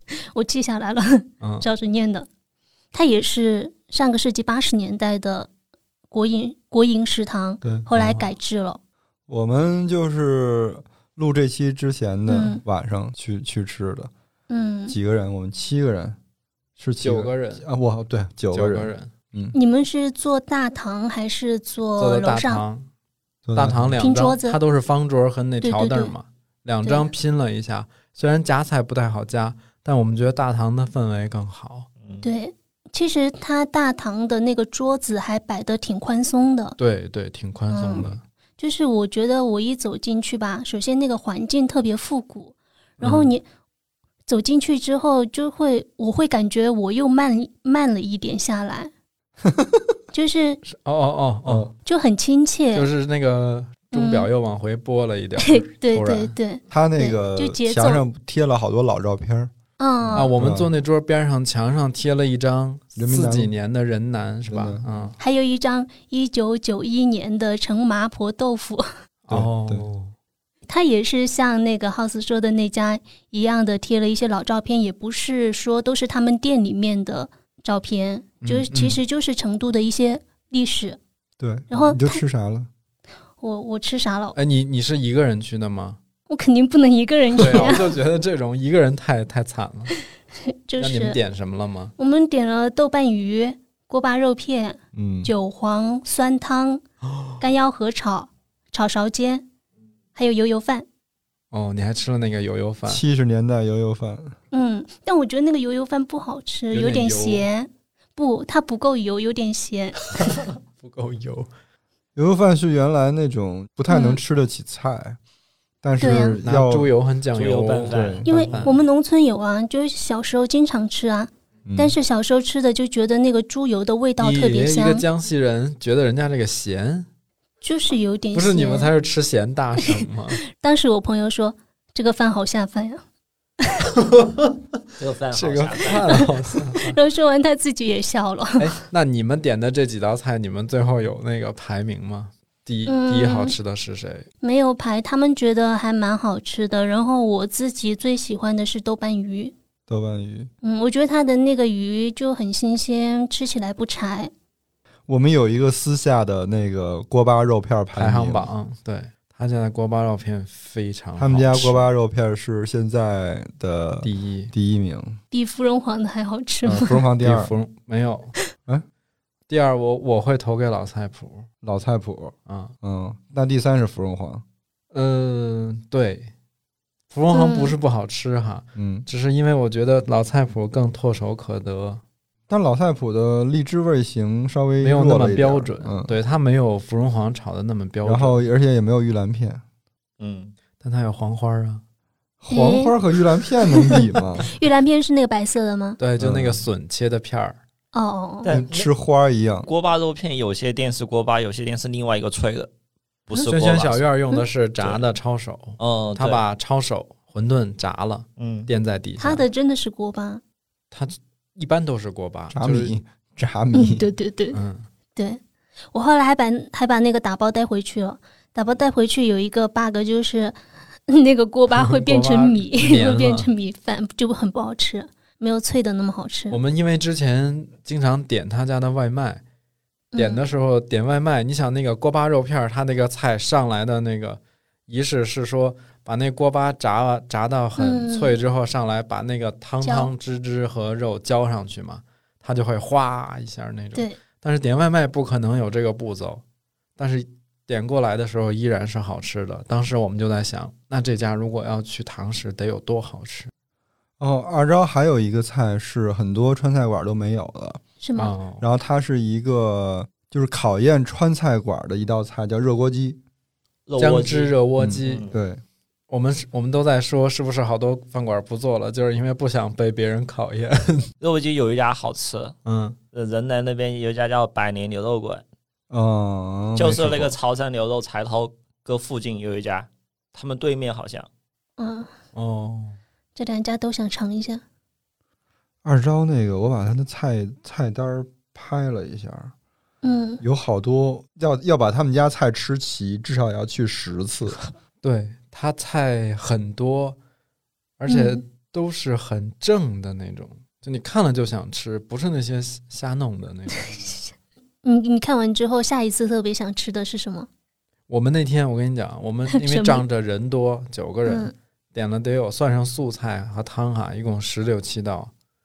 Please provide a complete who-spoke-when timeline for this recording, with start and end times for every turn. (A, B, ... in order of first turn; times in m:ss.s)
0:00.2-0:02.3 A
0:01.4-0:01.7 B
0:02.9-0:05.5 A
0:06.1-0:08.8 A
0:07.6-0:07.9 C
0:09.3-0:14.1 C
0:12.3-0:12.6 A
0:14.5-0:15.0 A
0:14.9-0:16.2 C
0:16.8-0:19.6 C
0:17.0-0:17.6 B
0:18.5-0:19.1 B
0:19.5-0:22.6 A
0:22.0-0:22.9 B
0:23.5-0:24.0 C
0:23.5-0:31.9 B
0:24.0-0:24.6 A
0:25.6-0:26.1 A
0:26.8-0:27.1 A
0:32.2-0:36.8 A
0:36.8-0:38.2 B
0:37.7-0:43.4 A
0:43.0-0:43.3 B
0:44.2-0:48.9 A
0:49.4-0:49.9 C
0:50.1-0:50.6 A
0:50.6-0:51.7 B
0:51.4-0:51.7 C
0:51.8-0:52.9 A
0:52.7-0:56.3 B
0:53.9-0:54.3 A
0:55.4-0:58.0 A
0:56.7-0:59.5 C
0:59.8-1:00.4 A
1:00.0-1:00.7 C
1:00.1-1:05.2 B
1:03.0-1:03.5 C
1:04.5-1:05.1 C
1:05.2-1:08.9 A
1:09.3-1:10.1 B
1:09.3-1:09.8 C
1:10.7-1:21.0 A
1:18.4-1:19.0 B
1:21.4-1:22.7 C
1:21.7-1:22.2 A
1:23.4-1:24.4 A
1:24.3-1:26.0 B
1:26.3-1:27.9 A
1:27.4-1:29.9 B
1:30.4-1:31.2 A
1:30.8-1:31.9 B
1:32.0-1:36.8 A
1:34.9-1:35.3 C
1:37.1-1:37.4 B
1:37.4-1:39.4 A
1:40.1-1:40.8 A
1:41.5-1:43.0 B
1:42.8-1:44.4 C
1:44.5-1:50.0 A
1:46.7-1:47.5 B
1:50.2-1:51.5 B
1:52.2-1:55.2 C
1:53.9-1:54.2 A
1:55.8-1:56.9 C
1:56.0-1:56.4 A
1:56.4-1:58.8 B
1:57.3-1:58.3 D
1:57.9-1:58.3 C
1:58.2-2:05.0 A
2:01.6-2:02.0 C
2:04.2-2:07.1 B
2:07.6-2:08.9 A
2:08.3-2:10.4 B
2:10.5-2:13.0 A
2:14.0-2:14.5 B
2:15.0-2:16.2 D
2:15.3-2:17.0 B
2:16.8-2:18.7 A
2:18.6-2:24.3 B
2:22.9-2:23.5 A
2:24.4-2:29.5 A
2:29.9-2:30.5 C
2:30.6-2:34.3 A
2:35.1-2:38.5 C
2:38.0-2:41.9 B
2:41.2-2:45.2 C
2:44.0-2:44.5 B
2:45.3-2:47.0 A
2:46.6-2:47.5 C
2:47.2-2:48.3 B
2:49.5-2:51.5 B
2:51.6-2:54.4 C
2:52.4-2:52.7 B
2:54.9-2:56.3 B
2:57.1-3:02.0 B
2:57.3-2:57.8 A
2:58.8-2:59.1 C
3:02.5-3:06.2 C
3:04.8-3:08.4 B
3:08.0-3:09.6 C
3:10.2-3:10.5 D
3:10.8-3:11.8 B
3:12.4-3:14.5 C
3:12.5-3:12.9 A
3:13.7-3:16.0 A
3:16.0-3:17.6 B
3:16.2-3:16.6 C
3:17.9-3:18.5 A
3:18.4-3:18.9 D
3:18.5-3:19.7 C
3:19.6-3:22.7 D
3:23.3-3:24.0 D
3:23.4-3:29.4 B
3:24.8-3:25.0 D
3:25.8-3:26.4 D
3:28.4-3:28.7 D
3:29.2-3:30.4 A
3:30.9-3:32.9 B
3:32.5-3:34.0 C
3:33.7-3:34.6 A
3:34.5-3:34.9 B
3:35.9-3:46.6 A
3:41.8-3:43.5 B
3:46.5-3:49.4 B
3:50.1-3:50.4 A
3:50.2-4:06.4 B
3:57.8-3:58.4 A
3:59.8-4:00.1 A
4:07.0-4:13.5 B
4:14.2-4:17.8 C
4:18.0-4:18.4 A
4:18.2-4:18.6 B
4:18.6-4:23.2 C
4:23.9-4:25.3 D
4:24.0-4:25.3 B
4:24.8-4:25.6 C
4:26.1-4:31.1 B
4:31.2-4:32.6 D
4:32.6-4:33.0 B
4:33.1-4:35.4 D
4:35.9-4:37.3 C
4:36.8-4:41.3 D
4:41.8-4:42.1 A
4:42.3-4:43.0 B
4:43.3-4:44.6 A
4:45.8-4:49.5 C
4:50.0-4:50.4 A
4:50.4-4:54.6 C
4:55.0-4:57.2 B
4:58.0-5:04.1 B
4:58.1-4:58.4 A
5:04.8-5:07.5 A
5:08.1-5:15.3 B
5:09.5-5:10.0 A
5:11.2-5:11.5 A